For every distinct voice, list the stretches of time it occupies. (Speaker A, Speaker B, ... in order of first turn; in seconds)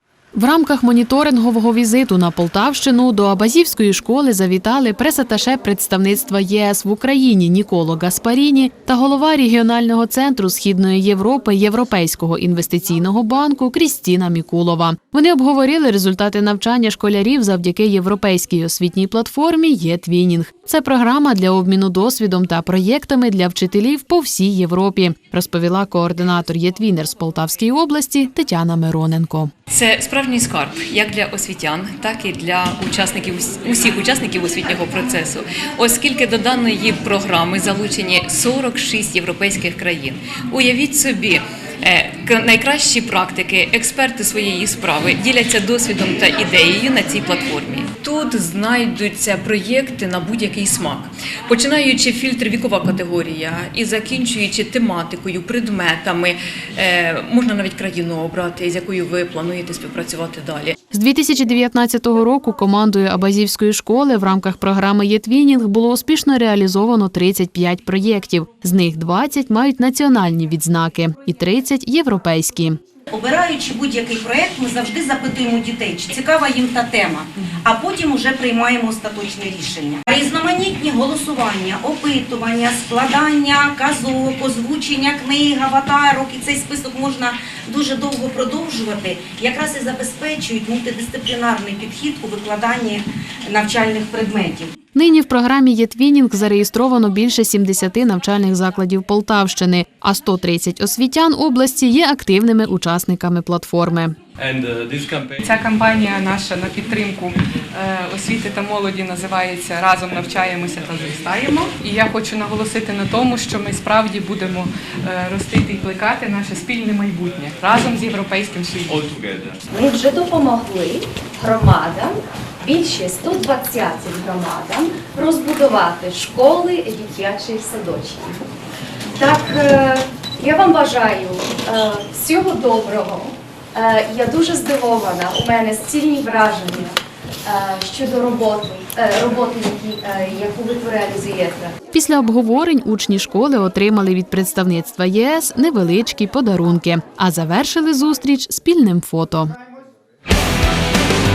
Speaker A: 0.3-29.5, 60.9-72.8, 94.9-104.1, 141.9-149.5
Speaker B: 29.7-60.8
Speaker C: 73.1-94.7
Speaker D: 105.4-119.1
Speaker E: 119.7-128.4, 129.2-141.7